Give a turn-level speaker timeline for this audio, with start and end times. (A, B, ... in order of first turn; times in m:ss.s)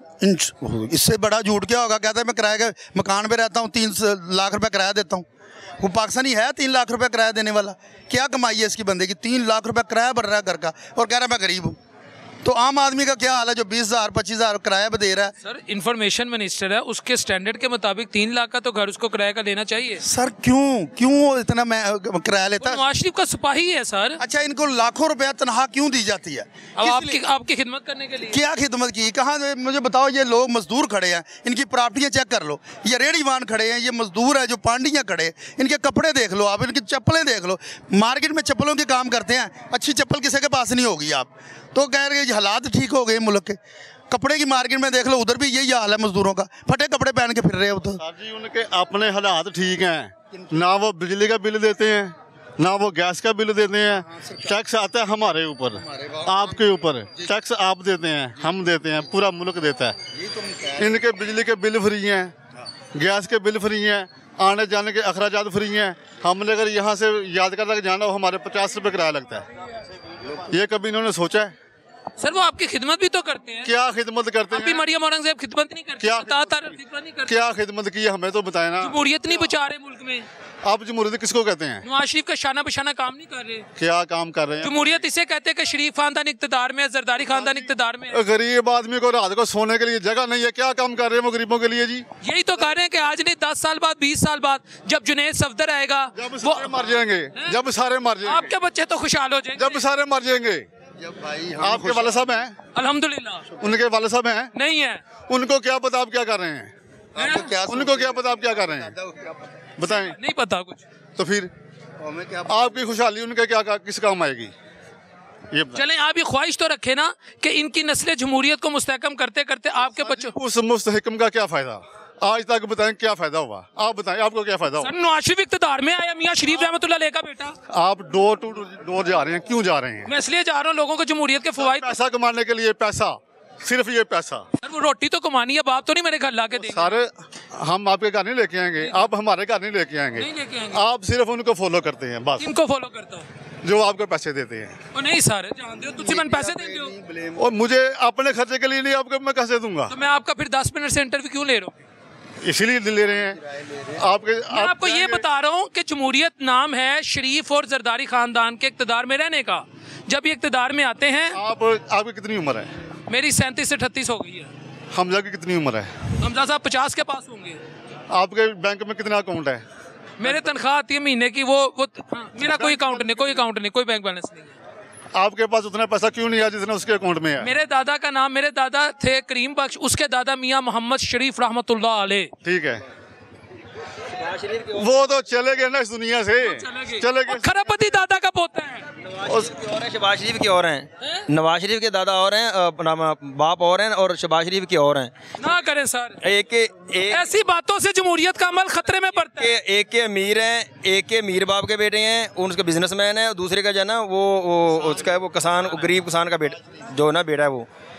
0:00.2-0:05.2 A
0:05.8-0:11.8 A
0:12.4-0:15.3 A
0:15.4-0:20.0 B
0:20.0-0:22.8 A
0:22.6-0:24.2 B
0:24.2-0:27.2 A
0:26.8-0:28.4 B
0:28.3-0:43.6 A
0:44.1-0:48.0 A
0:48.0-1:00.0 C
1:00.8-1:02.3 C
1:02.9-1:09.5 C
1:10.5-1:11.5 C
1:12.2-1:13.7 B
1:13.6-1:14.8 C
1:14.5-1:17.4 B
1:16.0-1:16.7 C
1:17.3-1:19.4 C
1:18.8-1:20.2 B
1:20.6-1:21.8 C
1:21.8-1:23.7 B
1:23.8-1:25.0 C
1:24.6-1:28.2 B
1:27.3-1:32.0 C
1:32.2-1:37.5 B
1:36.2-1:38.5 C
1:38.2-1:39.8 B
1:39.5-1:40.7 C
1:41.6-1:42.5 C
1:42.7-1:43.5 B
1:43.6-1:44.5 C
1:44.5-1:45.0 B
1:45.3-1:46.7 C
1:47.2-1:47.5 B
1:47.2-1:47.9 A
1:47.3-1:48.9 C
1:49.8-1:50.2 C
1:49.8-1:50.8 B
1:51.2-1:51.5 C
1:52.4-1:54.5 C
1:55.5-1:55.8 C
1:55.7-2:00.3 B
1:59.9-2:04.9 C
2:04.8-2:07.6 B
2:07.7-2:10.1 C
2:10.1-2:11.9 B
2:11.6-2:14.4 C
2:14.6-2:17.0 B
2:16.6-2:22.5 C
2:18.8-2:19.0 B
2:20.2-2:20.8 B
2:22.4-2:23.3 B
2:23.6-2:24.8 C
2:24.9-2:26.9 B
2:27.4-2:29.9 C
2:29.9-2:31.8 B
2:32.4-2:33.4 C
2:33.9-2:35.2 C
2:34.5-2:41.4 B
2:41.3-2:42.7 C
2:43.1-2:44.5 B
2:44.9-2:45.9 C
2:46.2-2:47.6 B
2:48.1-2:49.6 C
2:50.2-2:54.5 B
2:52.4-2:53.4 C
2:55.1-2:57.5 C
2:57.4-3:02.3 B
3:02.4-3:02.8 C
3:04.7-3:07.5 C
3:06.4-3:08.8 B
3:09.1-3:15.1 D
3:15.4-3:16.2 B
3:16.2-3:17.2 D
3:17.1-3:19.5 B
3:19.4-3:27.7 D